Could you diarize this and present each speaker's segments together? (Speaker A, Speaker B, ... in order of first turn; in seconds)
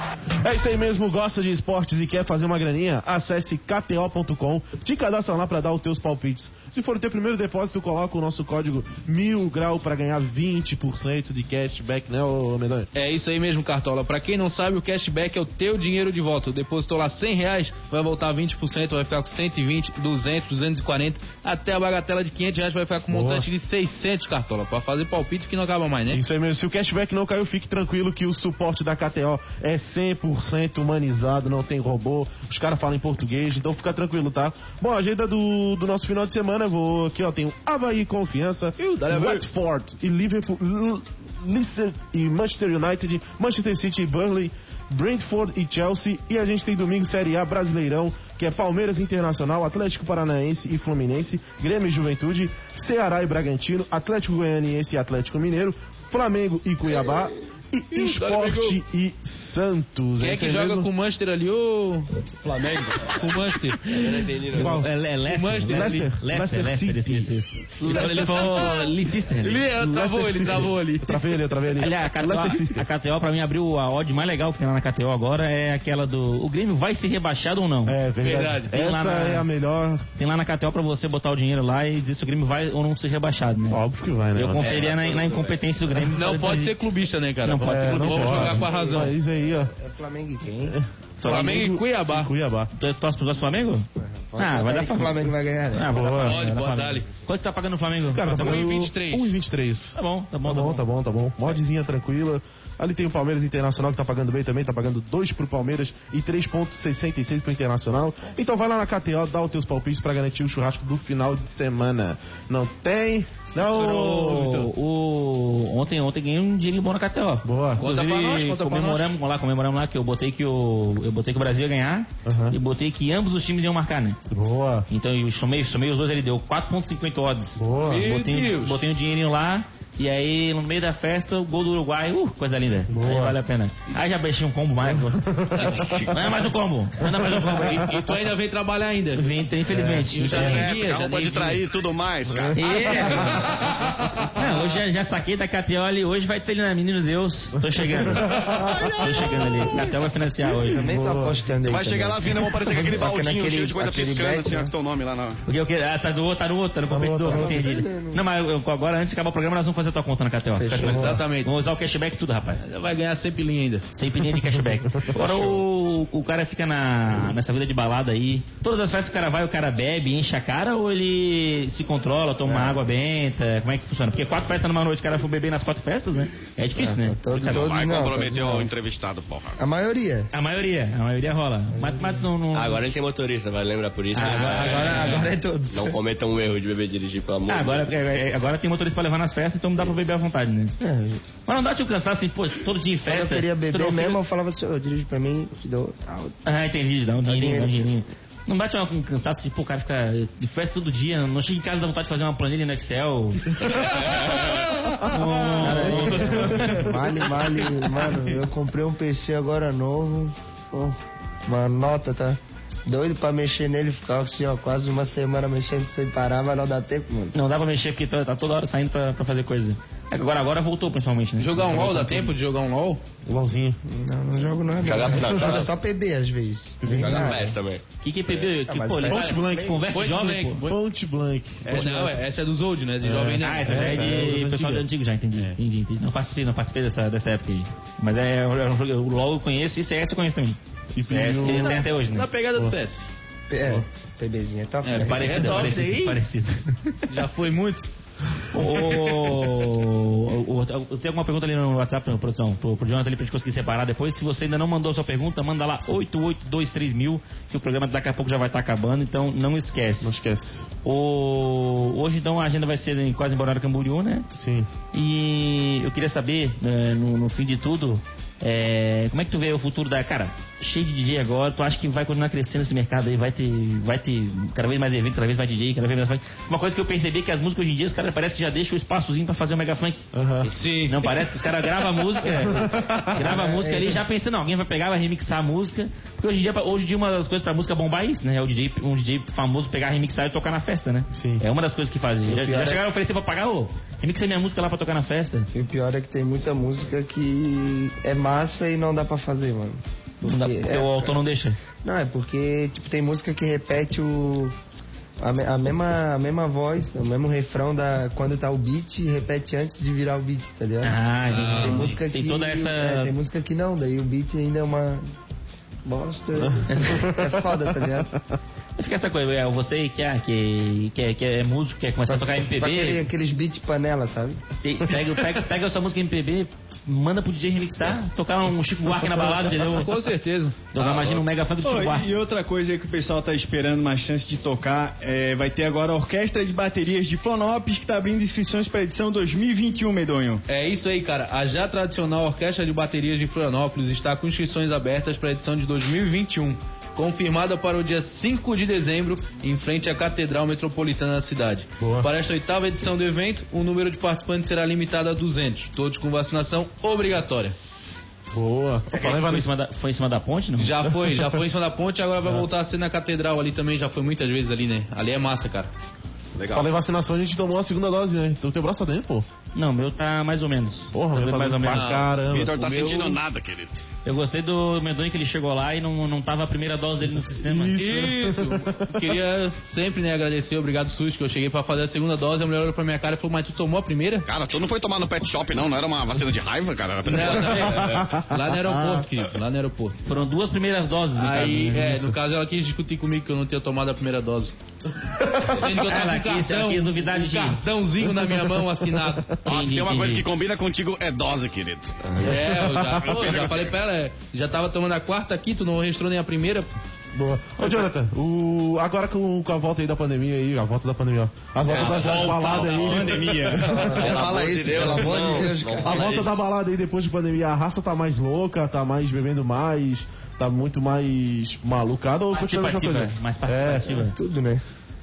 Speaker A: 0.4-12.9, 23.1-23.5, 26.1-60.9, 64.5-64.9, 65.7-67.3, 69.7-72.8, 77.8-80.0, 83.7-84.8, 87.5-89.7, 90.7-92.7, 95.9-96.5, 98.1-114.7, 117.4-117.8, 122.2-122.5, 124.3-124.9, 127.6-128.1, 132.9-133.4, 134.9-136.1, 139.7-140.4, 143.1-143.9, 147.6-149.3, 150.8-151.4, 156.9-157.8, 160.7-161.2, 205.3-206.9, 221.7-222.3, 223.2-223.8, 226.8-227.5, 229.1-232.3, 233.0-234.8, 240.9-241.8, 260.0-260.7, 264.4-264.7, 280.1-280.5, 282.2-283.6, 291.1-291.4, 316.5-317.2, 351.8-352.1, 358.3-359.5, 360.9-361.4, 362.2-362.5, 366.5-369.2, 370.9-372.6, 377.4-379.2, 387.7-389.0, 398.0-399.4, 402.2-403.2, 407.1-414.1, 415.1-424.0
Speaker B: 12.9-26.2, 38.8-39.4, 57.9-58.8, 60.2-64.1, 65.3-66.2, 67.8-71.3, 78.2-78.7, 86.1-89.1, 91.2-92.3, 96.2-97.1, 98.3-99.3, 117.8-119.1, 127.8-128.8, 135.5-136.1, 137.5-139.5, 140.1-141.6, 142.7-143.8, 160.7-161.6, 162.6-163.8, 221.4-223.0, 229.9-230.8, 231.6-234.2, 241.4-243.1, 244.8-246.2, 247.1-247.9, 280.5-281.3, 311.3-312.0, 329.3-331.1, 340.5-357.6, 360.6-365.7, 371.7-373.2, 377.7-384.3, 387.0-390.0, 391.1-394.5, 395.3-399.4, 402.2-406.7, 411.7-413.5
Speaker C: 62.5-63.2, 63.8-64.7, 84.6-85.6, 182.5-187.9, 224.8-225.7, 226.9-227.8, 413.8-416.4
Speaker D: 64.5-69.6, 71.8-79.5, 80.1-86.8, 87.4-88.6, 91.2-91.7, 92.7-93.9, 94.4-98.7, 99.9-100.8, 113.6-124.2, 124.9-137.9, 139.1-140.7, 142.5-143.5, 144.3-150.9, 155.4-162.6, 163.9-177.6, 180.3-182.8, 184.1-185.3, 187.5-190.7, 191.4-194.2, 196.4-207.8, 217.3-222.3, 228.0-230.6, 233.4-242.3, 245.0-247.1, 248.5-260.1, 260.8-264.2, 264.9-280.1, 280.8-295.5, 300.2-301.6, 310.8-313.1, 316.7-317.1, 318.8-323.0, 324.6-329.9, 330.7-332.1, 358.9-360.9, 369.5-371.9, 374.0-377.8, 390.1-392.1, 395.5-397.6, 399.4-400.3, 422.3-424.1
Speaker E: 88.6-90.8, 94.0-96.1, 150.4-154.7, 157.3-158.2, 160.6-161.1, 165.2-165.6, 172.4-172.8, 176.7-178.7, 179.6-180.3, 181.8-182.2, 184.2-186.0, 190.8-191.2, 193.0-196.4, 197.2-197.9, 205.5-217.3, 223.8-227.4, 228.3-229.8, 243.5-245.7, 283.5-284.0, 292.2-292.8, 295.5-301.2, 301.8-304.5, 305.2-315.1, 315.8-318.1, 322.1-324.4, 413.6-416.3, 424.0-424.6
Speaker F: 140.3-143.1, 151.7-155.4, 177.3-179.6, 366.4-366.7, 372.3-373.8, 384.3-388.0, 399.4-403.8, 414.0-415.3
Speaker G: 331.6-340.4, 411.9-413.8